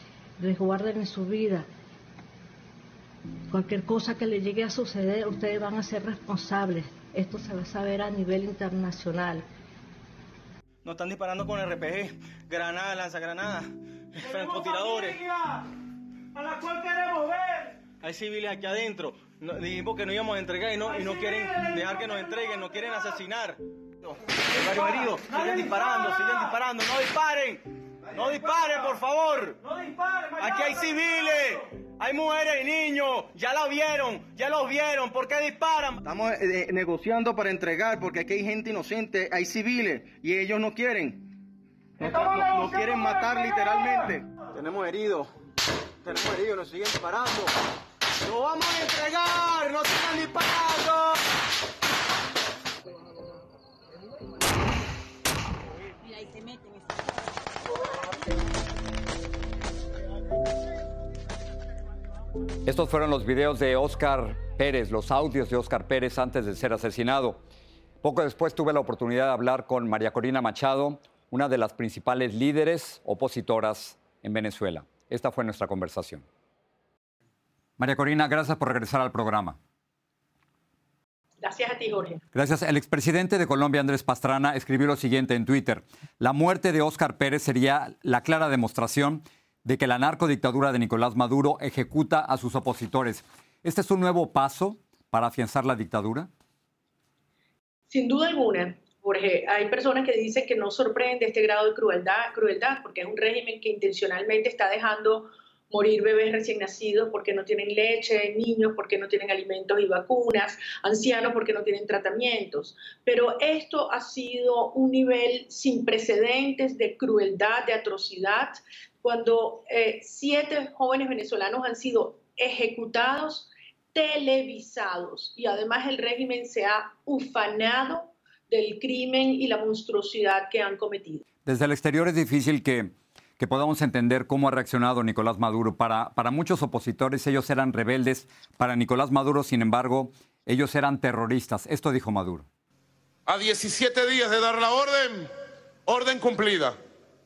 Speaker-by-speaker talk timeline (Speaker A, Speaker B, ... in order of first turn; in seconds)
Speaker A: 0.4-1.7, 3.5-9.4
Speaker B: 10.8-15.3, 17.8-29.6, 30.3-41.3, 42.0-45.3, 46.0-47.5, 48.2-51.1
Speaker C: 14.4-15.1, 16.7-17.4, 25.0-26.1, 30.2-30.8
Speaker D: 62.6-67.4, 68.0-76.2, 77.8-79.6, 82.3-96.3, 131.4-142.5
Speaker E: 81.4-82.2, 97.9-131.2
Speaker F: 143.3-145.3, 145.8-146.8